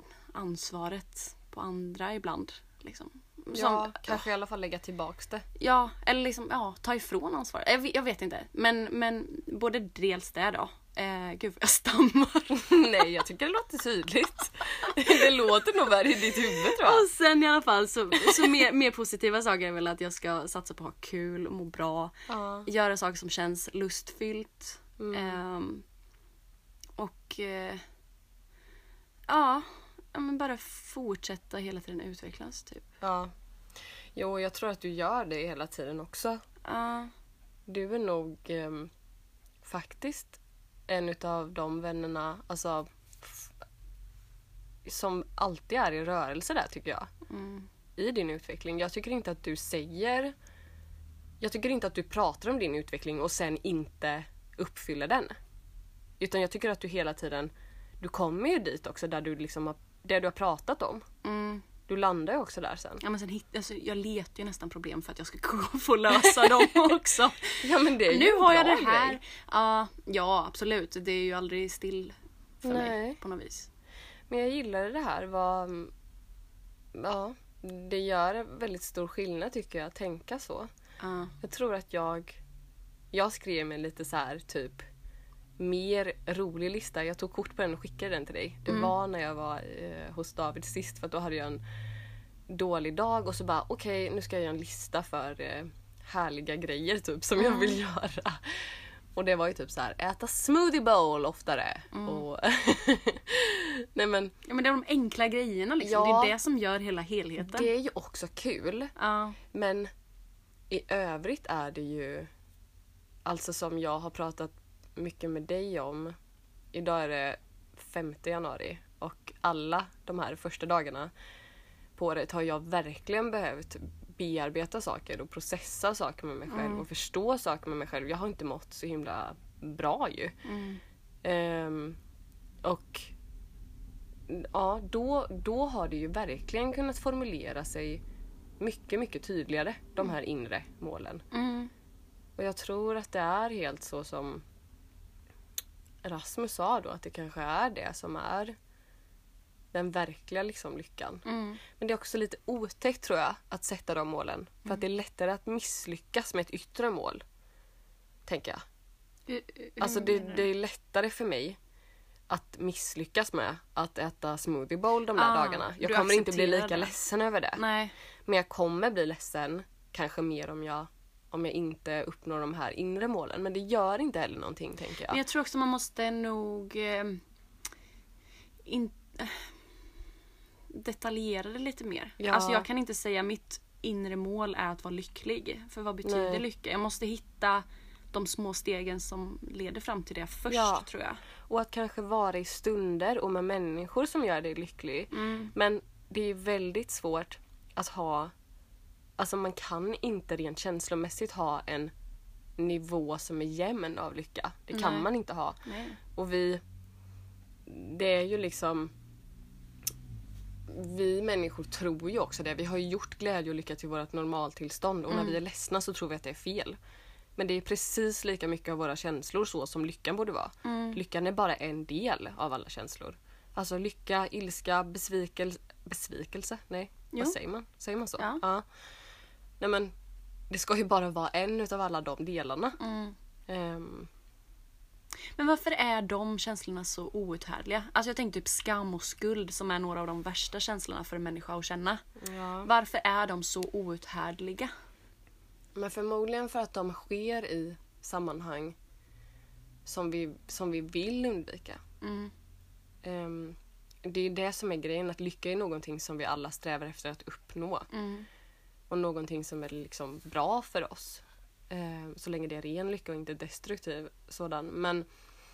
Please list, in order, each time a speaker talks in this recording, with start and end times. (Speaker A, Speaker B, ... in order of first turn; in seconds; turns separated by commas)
Speaker A: 0.3-4.2, Speaker B: 3.5-5.4, Speaker A: 5.6-12.6, Speaker B: 12.5-17.0, Speaker A: 16.7-22.1, Speaker B: 22.3-22.7, Speaker A: 22.6-25.8, Speaker B: 25.0-25.4, Speaker A: 27.0-27.8, Speaker A: 29.3-32.9, Speaker B: 33.0-33.3, Speaker B: 34.1-36.4, Speaker A: 36.6-37.1, Speaker B: 37.7-38.9, Speaker B: 39.6-43.5, Speaker B: 44.8-47.1, Speaker A: 47.3-47.7, Speaker B: 48.0-50.3, Speaker B: 51.4-55.3, Speaker B: 56.2-61.0, Speaker A: 61.2-61.6, Speaker B: 61.9-63.0, Speaker A: 63.0-73.7, Speaker B: 66.2-66.8, Speaker B: 67.6-69.2, Speaker B: 72.6-73.2, Speaker B: 74.3-75.9, Speaker B: 76.9-80.7, Speaker A: 81.0-81.3, Speaker B: 81.4-82.4, Speaker B: 83.1-84.8, Speaker B: 85.6-91.6, Speaker B: 92.5-104.3, Speaker A: 97.4-97.8, Speaker A: 101.9-102.2, Speaker A: 104.4-107.7, Speaker B: 105.8-106.3, Speaker B: 107.4-108.9, Speaker A: 109.0-109.4, Speaker B: 109.5-109.9, Speaker B: 110.7-112.3, Speaker B: 113.2-116.1, Speaker B: 116.7-121.1, Speaker B: 122.0-130.3, Speaker A: 126.5-126.8, Speaker A: 130.4-130.8, Speaker B: 131.2-132.0, Speaker B: 132.6-133.1, Speaker B: 134.3-138.0, Speaker B: 138.6-141.2, Speaker A: 141.3-141.7, Speaker B: 142.4-144.4, Speaker B: 146.0-148.5, Speaker B: 149.7-157.2, Speaker A: 151.2-151.6, Speaker B: 158.2-158.6, Speaker A: 159.3-160.4, Speaker B: 159.8-161.6, Speaker B: 162.3-167.6, Speaker A: 165.2-166.9, Speaker A: 167.6-167.9, Speaker B: 168.2-175.2, Speaker A: 175.1-177.2, Speaker A: 178.6-179.5, Speaker A: 180.7-191.2, Speaker B: 182.2-182.7, Speaker B: 186.0-186.4, Speaker B: 190.5-190.9, Speaker B: 191.5-198.3, Speaker A: 195.1-195.5, Speaker B: 199.2-201.9, Speaker B: 202.6-206.6, Speaker A: 204.7-205.1, Speaker A: 205.6-206.0, Speaker B: 207.7-208.9, Speaker B: 210.7-216.8, Speaker A: 215.1-215.4, Speaker B: 217.4-228.6, Speaker A: 220.6-221.0, Speaker B: 229.6-229.9, Speaker B: 230.5-232.8, Speaker A: 232.8-233.2, Speaker B: 233.5-234.1, Speaker A: 235.3-242.0, Speaker B: 242.2-242.7, Speaker A: 242.6-244.7, Speaker B: 245.7-248.8, Speaker B: 249.8-251.8, Speaker A: 252.0-252.3, Speaker B: 253.0-257.9, Speaker A: 257.9-258.3, Speaker B: 258.9-265.1